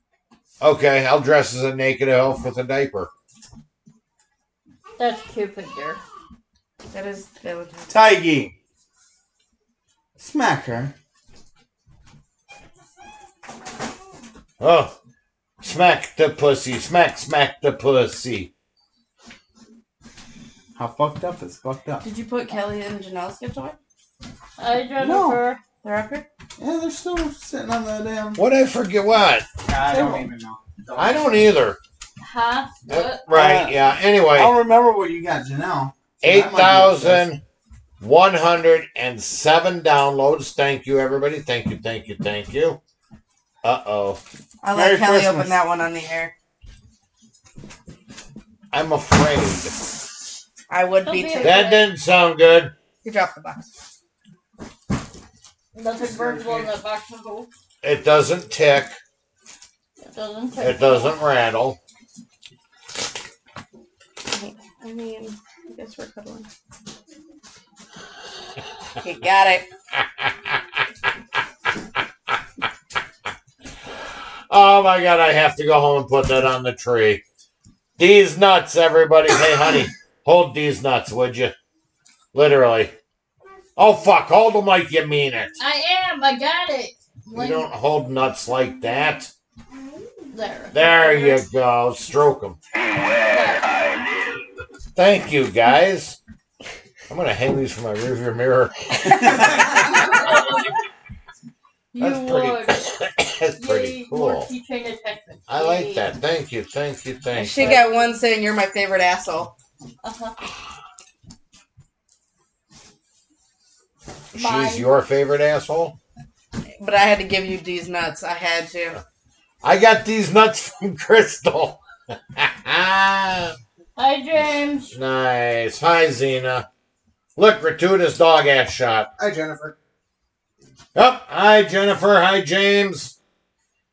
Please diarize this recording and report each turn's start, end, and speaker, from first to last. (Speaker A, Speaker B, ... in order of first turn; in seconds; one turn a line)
Speaker A: 0.6-3.1
Speaker B: 5.0-6.0
Speaker C: 6.9-8.0
Speaker D: 7.9-8.5
Speaker D: 10.2-10.9
Speaker A: 14.6-14.9
Speaker A: 15.6-18.5
Speaker D: 20.8-22.0
Speaker C: 22.0-23.8
Speaker B: 24.6-25.6
Speaker D: 25.0-25.4
Speaker C: 25.8-26.2
Speaker D: 26.6-28.4
Speaker A: 28.4-29.5
Speaker E: 29.7-31.5
Speaker B: 29.9-30.3
Speaker A: 31.0-31.8
Speaker B: 32.2-33.2
Speaker A: 32.9-34.5
Speaker D: 33.3-33.8
Speaker D: 34.3-37.3
Speaker A: 36.2-37.4
Speaker A: 38.0-42.8
Speaker A: 43.6-44.2
Speaker C: 44.6-46.3
Speaker D: 44.7-45.6
Speaker A: 48.7-49.8
Speaker C: 50.7-51.6
Speaker B: 51.0-51.9
Speaker A: 51.4-52.7
Speaker C: 53.0-53.7
Speaker B: 55.7-57.5
Speaker E: 56.0-56.7
Speaker A: 57.8-59.0
Speaker B: 60.0-61.2
Speaker A: 60.6-61.8
Speaker C: 64.3-66.5
Speaker C: 69.0-69.7
Speaker A: 70.0-70.6
Speaker A: 74.5-77.2
Speaker A: 78.0-81.5
Speaker A: 82.3-82.9
Speaker A: 83.8-85.6
Speaker B: 85.6-87.7
Speaker A: 87.3-89.3
Speaker B: 90.3-91.4
Speaker A: 90.7-92.6
Speaker B: 93.3-93.6
Speaker A: 95.0-96.2
Speaker A: 97.1-99.9
Speaker B: 101.9-102.9
Speaker A: 102.0-104.5
Speaker B: 103.6-106.1
Speaker A: 105.5-107.9
Speaker C: 107.3-109.5
Speaker B: 107.5-108.2
Speaker B: 110.0-110.4
Speaker A: 114.3-116.0
Speaker B: 114.3-114.9
Speaker C: 116.8-119.0
Speaker A: 119.6-121.8
Speaker A: 122.3-123.6
Speaker B: 124.0-124.9
Speaker A: 124.9-126.7
Speaker A: 127.4-129.1
Speaker E: 129.2-129.8
Speaker A: 130.9-133.2